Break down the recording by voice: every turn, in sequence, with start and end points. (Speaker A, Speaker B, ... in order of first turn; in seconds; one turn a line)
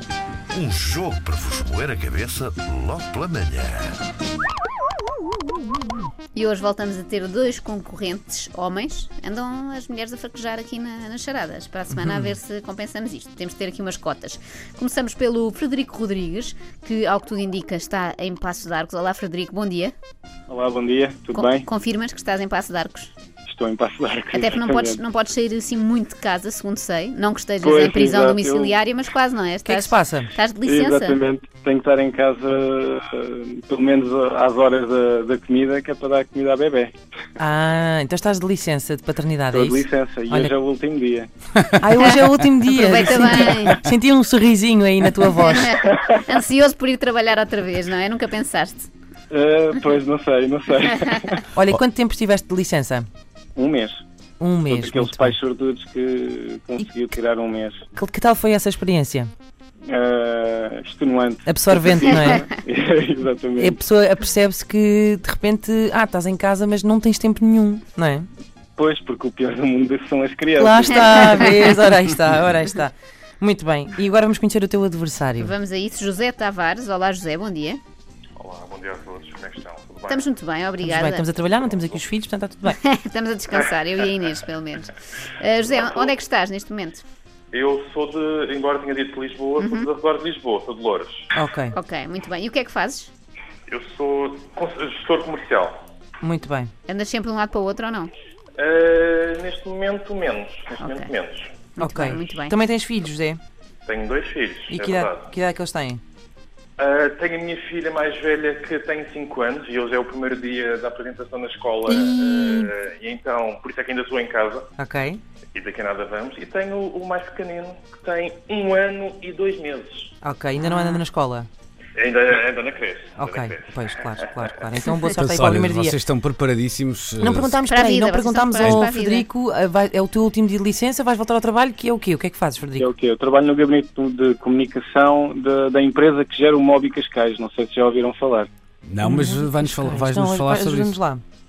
Speaker A: 0.5-4.0
Speaker B: 6.3-19.9
Speaker C: 20.5-21.7
Speaker B: 21.3-23.1
Speaker C: 23.5-25.0
Speaker B: 24.3-31.2
Speaker C: 27.6-28.8
Speaker D: 29.7-30.3
Speaker C: 30.6-36.9
Speaker D: 37.4-40.5
Speaker C: 39.5-41.3
Speaker D: 41.8-45.7
Speaker B: 42.7-43.8
Speaker B: 45.5-48.9
Speaker C: 49.3-51.4
Speaker D: 51.5-53.1
Speaker C: 53.6-54.0
Speaker D: 54.4-55.4
Speaker C: 54.7-57.8
Speaker D: 58.0-59.3
Speaker C: 59.9-63.8
Speaker D: 61.5-62.5
Speaker D: 63.6-68.3
Speaker C: 68.8-71.6
Speaker D: 70.6-75.5
Speaker B: 75.4-77.8
Speaker E: 78.4-80.3
Speaker B: 80.1-81.3
Speaker D: 80.8-82.8
Speaker B: 82.7-87.0
Speaker E: 83.5-84.4
Speaker E: 85.7-86.2
Speaker E: 87.5-91.3
Speaker B: 89.6-89.9
Speaker D: 91.3-91.8
Speaker B: 91.7-93.1
Speaker E: 93.7-95.8
Speaker D: 96.2-96.7
Speaker B: 96.9-98.1
Speaker E: 98.6-101.7
Speaker B: 100.8-101.1
Speaker B: 101.8-102.5
Speaker D: 101.8-103.4
Speaker E: 103.9-105.3
Speaker D: 104.7-106.0
Speaker E: 106.8-114.7
Speaker D: 111.9-112.7
Speaker D: 114.8-115.2
Speaker E: 115.5-120.1
Speaker D: 120.2-121.5
Speaker E: 122.0-123.7
Speaker D: 123.2-126.0
Speaker F: 125.1-127.5
Speaker D: 127.2-132.9
Speaker B: 127.7-129.3
Speaker C: 132.8-138.5
Speaker F: 138.8-141.0
Speaker D: 139.0-141.2